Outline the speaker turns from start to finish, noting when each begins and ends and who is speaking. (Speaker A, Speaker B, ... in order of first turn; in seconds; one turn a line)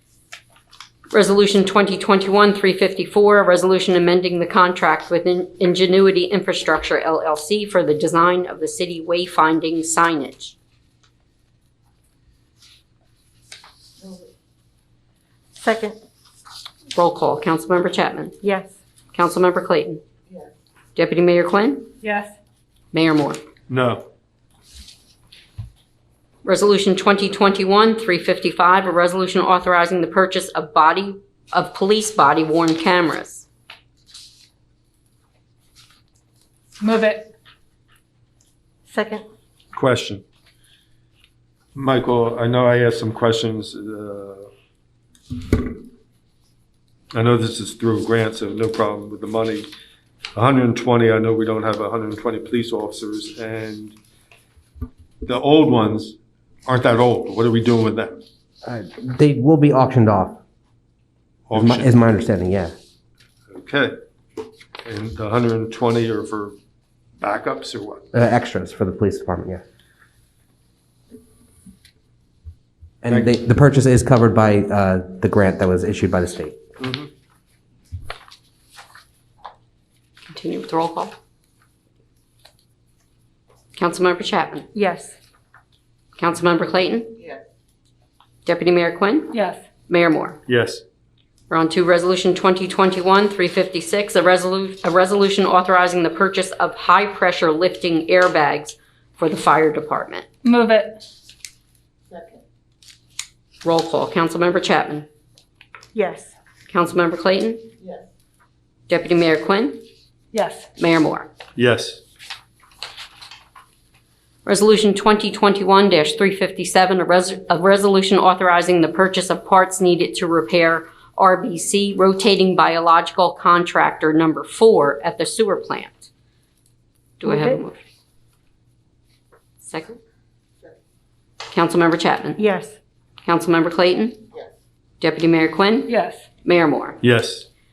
Speaker A: 1.1-10.5
Speaker B: 15.5-16.0
Speaker A: 16.9-18.4
Speaker B: 18.4-18.7
Speaker A: 19.1-20.0
Speaker A: 20.9-21.9
Speaker C: 22.0-22.3
Speaker A: 22.9-23.4
Speaker D: 23.7-24.1
Speaker A: 26.4-33.5
Speaker C: 36.8-37.3
Speaker B: 38.9-39.2
Speaker D: 39.7-40.2
Speaker D: 41.7-44.5
Speaker D: 47.1-49.7
Speaker D: 50.3-54.0
Speaker D: 55.2-58.2
Speaker E: 58.6-60.4
Speaker D: 61.5-62.0
Speaker E: 61.5-62.7
Speaker D: 63.5-64.0
Speaker D: 64.8-66.5
Speaker D: 67.2-68.0
Speaker E: 68.1-69.6
Speaker E: 73.0-76.6
Speaker D: 73.0-73.4
Speaker D: 76.8-77.1
Speaker A: 80.3-81.1
Speaker A: 83.7-84.7
Speaker B: 84.7-85.2
Speaker A: 86.2-87.2
Speaker A: 88.4-89.3
Speaker C: 89.3-89.6
Speaker A: 89.9-90.4
Speaker D: 90.5-90.8
Speaker A: 91.5-100.2
Speaker C: 100.4-101.0
Speaker A: 103.6-105.0
Speaker B: 105.9-106.3
Speaker A: 106.7-107.7
Speaker A: 108.9-109.8
Speaker C: 110.3-110.7
Speaker A: 110.8-111.3
Speaker D: 111.5-112.0
Speaker A: 114.4-126.1
Speaker A: 127.2-127.8
Speaker B: 127.2-127.6
Speaker A: 129.6-130.0
Speaker A: 131.5-132.4
Speaker B: 132.4-132.7
Speaker A: 133.2-134.2
Speaker A: 135.0-135.9
Speaker C: 135.9-136.2
Speaker A: 136.4-137.0
Speaker D: 137.0-137.5